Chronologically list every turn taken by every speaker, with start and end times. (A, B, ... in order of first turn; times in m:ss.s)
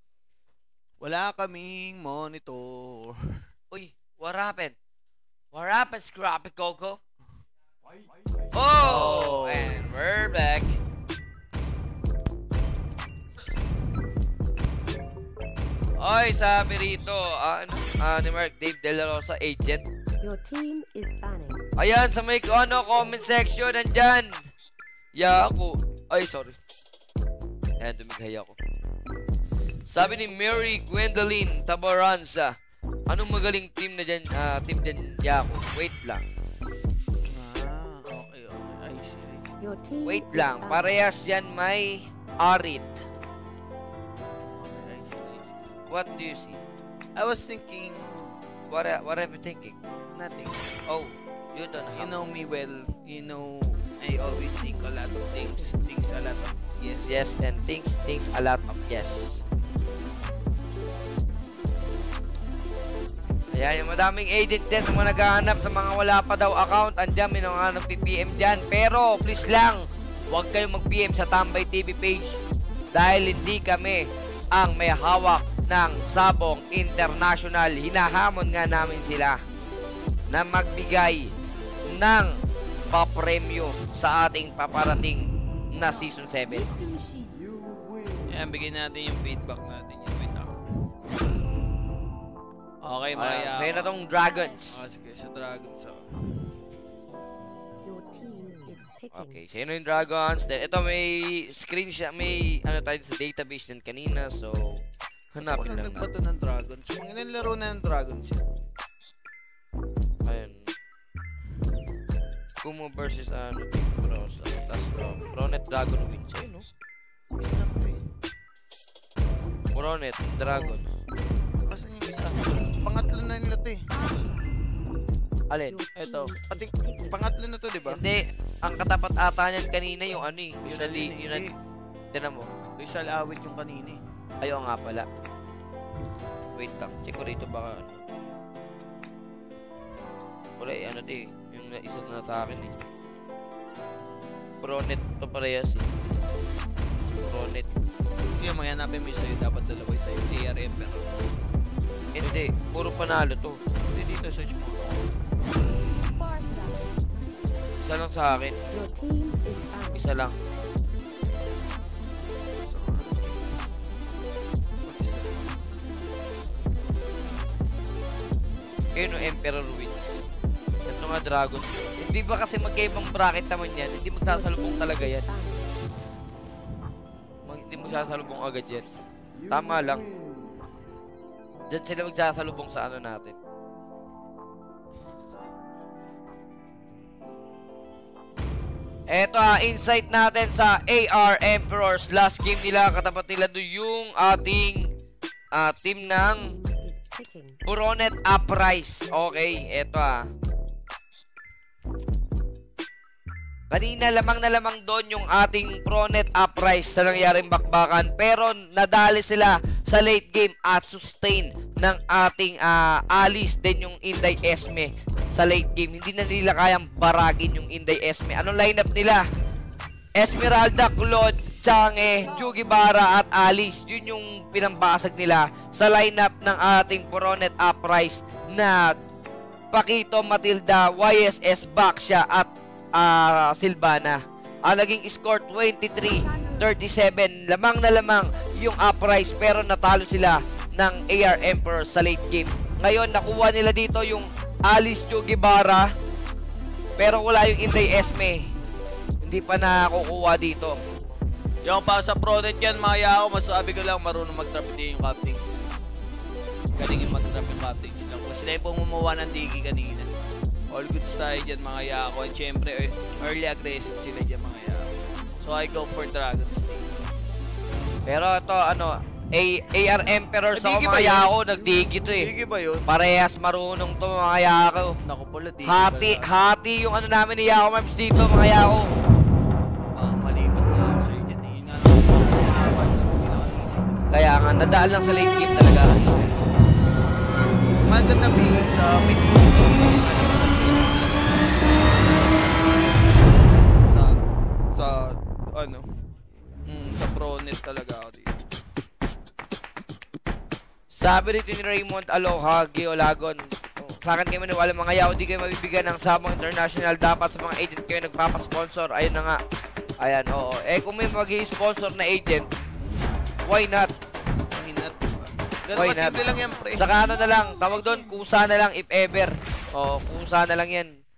0:01.0-0:03.2 A
0:03.7-0:04.8 B
0:05.5-0:07.0 B
0:08.5-0:10.7 B
0:08.8-0:09.8 A
0:16.0-0:19.8 B
0:20.2-0:21.6 C
0:21.8-0:24.3 B
0:25.2-0:26.5 B
0:27.8-0:28.6 B
0:29.9-0:32.5 B
0:33.1-0:36.2 B
0:37.3-0:39.5 A
0:39.6-0:41.0 C
0:40.0-0:43.0 B
0:44.6-0:45.6 A
0:45.9-0:46.6 B
0:47.2-0:48.4 A
0:48.7-0:49.8 B
0:50.2-0:50.7 A
0:50.9-0:52.1 B
0:52.0-0:57.2 A
0:54.9-0:55.7 C
0:57.1-0:59.4 B
1:03.5-1:12.4 B
1:12.9-1:19.4 B
1:20.3-1:21.3 B
1:21.9-1:22.3 B
1:22.9-1:26.7 B
1:27.0-1:27.4 C
1:28.3-1:30.6 A
1:32.8-1:33.9 A
1:33.2-1:34.7 B
1:34.3-1:34.6 C
1:34.7-1:36.0 A
1:37.8-1:39.4 C
1:39.1-1:44.8 B
1:45.3-1:48.4 A
1:45.4-1:46.1 B
1:50.2-1:50.7 B
1:52.6-1:56.6 B
1:57.4-1:58.0 A
1:59.7-2:00.8 B
2:01.7-2:03.8 A
2:05.7-2:07.2 C
2:06.0-2:08.0 A
2:07.9-2:11.4 B
2:10.6-2:11.5 A
2:12.1-2:12.5 B
2:12.8-2:14.0 A
2:14.4-2:15.1 B
2:16.6-2:18.0 B
2:20.6-2:22.7 B
2:24.6-2:25.9 B
2:27.3-2:27.7 B
2:28.4-2:31.0 A
2:32.2-2:33.6 B
2:33.9-2:35.0 A
2:36.2-2:36.9 C
2:37.8-2:38.6 B
2:38.7-2:40.1 C
2:40.0-2:40.3 B
2:42.7-2:43.5 A
2:44.8-2:45.6 A
2:49.0-2:50.2 B
2:50.9-2:55.2 B
2:54.2-2:55.7 C
2:57.5-2:58.8 B
2:59.5-3:00.0 B
3:01.7-3:03.4 B
3:09.1-3:14.9 B
3:15.6-3:16.4 B
3:16.1-3:17.6 C
3:17.7-3:20.2 B
3:23.7-3:39.2 B
3:40.2-3:48.9 B
3:49.7-4:05.9 B
4:07.0-4:08.5 B
4:09.2-4:10.8 B
4:11.6-4:15.4 A
4:16.8-4:20.1 A
4:20.7-4:26.9 A
4:28.1-4:32.3 B
4:30.6-4:32.8 A
4:32.9-4:34.9 B
4:35.0-4:36.3 A
4:35.6-4:38.8 B
4:40.0-4:43.8 A
4:44.1-4:46.6 B
4:47.9-4:54.1 A
4:54.7-4:55.0 A
4:55.5-4:55.8 A
4:56.7-4:58.3 A
5:01.0-5:09.4 B
5:10.0-5:12.4 B
5:13.5-5:13.9 B
5:14.5-5:16.9 A
5:15.8-5:16.2 B
5:16.8-5:20.9 B